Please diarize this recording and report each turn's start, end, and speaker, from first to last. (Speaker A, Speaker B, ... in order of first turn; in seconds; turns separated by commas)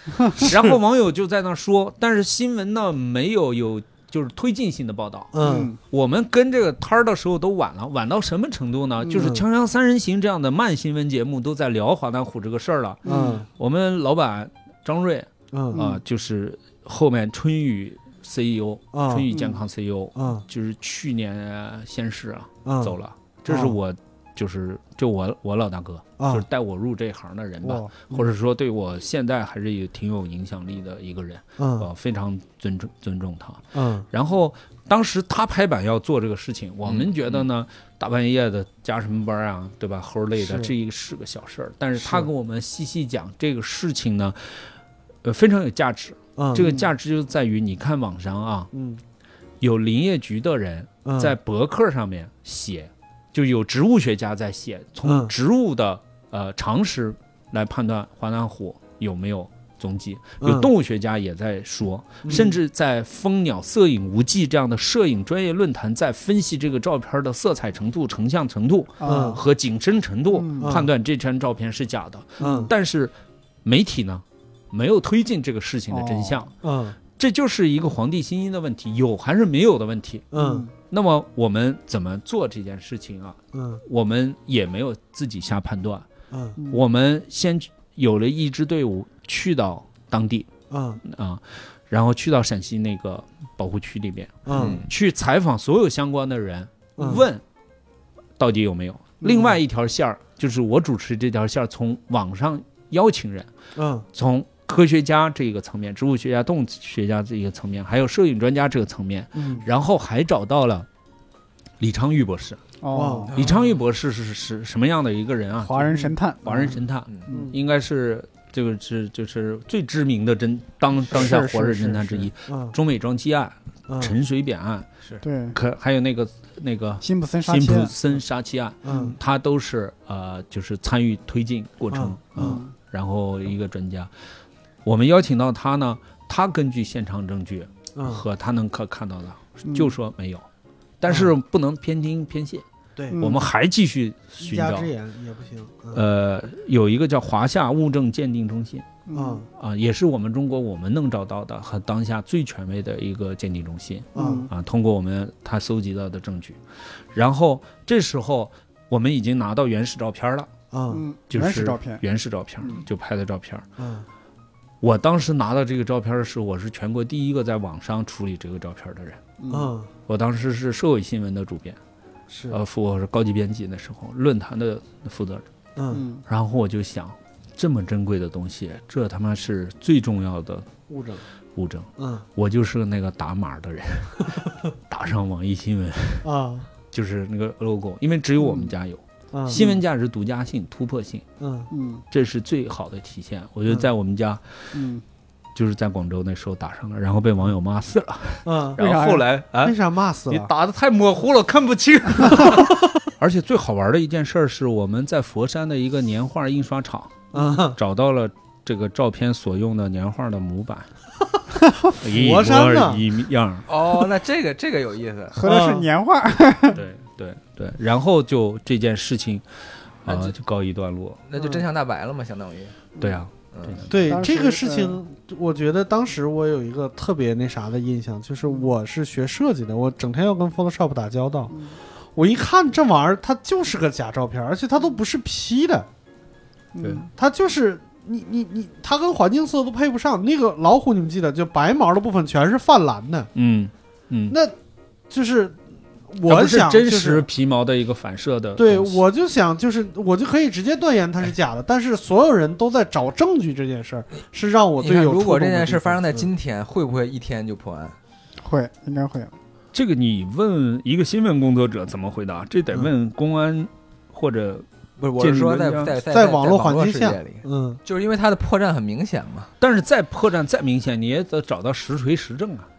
Speaker A: 0.1-0.4, Speaker B: 0.4-13.0, Speaker C: 5.3-5.7, Speaker A: 5.4-5.8, Speaker A: 9.0-9.3, Speaker C: 9.2-9.4, Speaker A: 13.0-13.4, Speaker C: 13.0-13.5, Speaker B: 13.6-44.7, Speaker C: 15.5-15.9, Speaker C: 18.9-19.5, Speaker C: 20.1-20.4, Speaker C: 22.6-22.9, Speaker C: 23.5-23.7, Speaker C: 26.2-26.4, Speaker C: 27.6-28.3, Speaker C: 31.6-31.9, Speaker C: 33.7-34.1, Speaker D: 36.8-37.4, Speaker C: 40.4-40.7, Speaker C: 42.0-42.3, Speaker B: 45.2-48.7, Speaker C: 46.4-46.9, Speaker C: 48.7-49.0, Speaker B: 49.6-73.1, Speaker C: 51.0-51.3, Speaker C: 55.0-55.3, Speaker C: 60.4-60.7, Speaker C: 62.2-62.6, Speaker A: 69.0-69.4, Speaker C: 69.0-69.4, Speaker A: 70.3-70.8, Speaker C: 70.6-70.9, Speaker A: 72.4-72.7, Speaker C: 72.4-72.7, Speaker B: 73.6-76.5, Speaker A: 75.9-76.4, Speaker C: 76.6-77.0, Speaker B: 77.1-80.3, Speaker C: 80.3-80.7, Speaker A: 80.3-80.7, Speaker B: 80.9-86.1, Speaker C: 83.5-83.8, Speaker C: 86.3-86.6, Speaker B: 86.7-90.5, Speaker C: 90.7-91.0, Speaker B: 91.0-97.4, Speaker C: 94.5-94.8, Speaker D: 94.5-94.9, Speaker C: 97.0-97.3, Speaker B: 98.4-103.5, Speaker C: 99.2-99.6, Speaker C: 103.8-104.0, Speaker B: 104.1-110.9, Speaker A: 109.4-109.6, Speaker C: 109.4-109.6, Speaker B: 111.8-112.6, Speaker A: 112.8-113.3, Speaker C: 112.9-113.4, Speaker D: 113.3-113.6, Speaker B: 113.3-124.9, Speaker A: 115.6-117.5, Speaker C: 117.3-117.5, Speaker A: 121.1-122.3, Speaker C: 122.5-122.7, Speaker C: 123.9-124.1, Speaker A: 125.2-125.6, Speaker B: 125.5-134.1, Speaker A: 127.0-127.9, Speaker C: 128.8-129.1, Speaker A: 128.9-129.1, Speaker C: 131.9-132.6, Speaker A: 132.3-132.7, Speaker B: 134.8-140.4, Speaker C: 137.9-138.2, Speaker A: 139.7-139.9, Speaker B: 141.0-144.9, Speaker C: 141.1-141.3, Speaker A: 143.1-143.5, Speaker C: 144.4-146.0, Speaker B: 145.9-149.0, Speaker A: 149.1-149.4, Speaker C: 149.1-149.5, Speaker B: 149.6-156.6, Speaker C: 154.1-154.5, Speaker A: 154.1-154.5, Speaker B: 157.1-160.5, Speaker C: 160.7-161.0, Speaker A: 160.9-162.0, Speaker B: 161.3-163.6, Speaker C: 163.8-164.1, Speaker B: 164.8-169.2, Speaker A: 169.4-169.7, Speaker C: 169.5-169.9, Speaker B: 170.1-171.8, Speaker C: 172.3-172.6, Speaker B: 172.5-175.4, Speaker C: 175.8-176.0, Speaker A: 175.9-176.2, Speaker B: 176.2-180.7, Speaker C: 180.9-181.2, Speaker B: 181.6-186.3, Speaker C: 182.0-182.2, Speaker C: 186.2-186.7, Speaker B: 186.9-191.2, Speaker C: 189.3-189.8, Speaker C: 191.4-191.7, Speaker A: 191.7-192.0, Speaker B: 192.1-194.7, Speaker A: 194.7-195.0, Speaker B: 195.5-199.8, Speaker C: 198.4-198.8, Speaker A: 198.8-199.2, Speaker C: 199.6-200.5, Speaker B: 200.3-210.9, Speaker C: 207.3-207.8, Speaker B: 212.0-213.7, Speaker C: 212.0-213.0, Speaker D: 213.7-215.4, Speaker A: 215.3-216.8, Speaker C: 215.4-215.8, Speaker B: 216.7-219.4, Speaker B: 220.0-221.2, Speaker D: 220.1-220.3, Speaker D: 221.3-222.8, Speaker C: 221.4-221.6, Speaker B: 223.0-224.0, Speaker D: 223.5-223.9, Speaker C: 223.9-231.5, Speaker A: 224.0-225.0, Speaker A: 231.5-231.8, Speaker C: 232.1-235.9, Speaker A: 236.7-237.1, Speaker C: 237.2-243.3, Speaker B: 243.3-244.3, Speaker C: 244.3-244.5, Speaker C: 245.1-245.6, Speaker C: 246.1-247.2, Speaker B: 246.3-249.0, Speaker C: 248.6-256.3, Speaker D: 254.8-257.9, Speaker A: 258.4-259.3, Speaker B: 259.7-264.6, Speaker D: 265.0-269.5, Speaker B: 265.2-265.9, Speaker C: 266.1-267.8, Speaker B: 269.6-272.7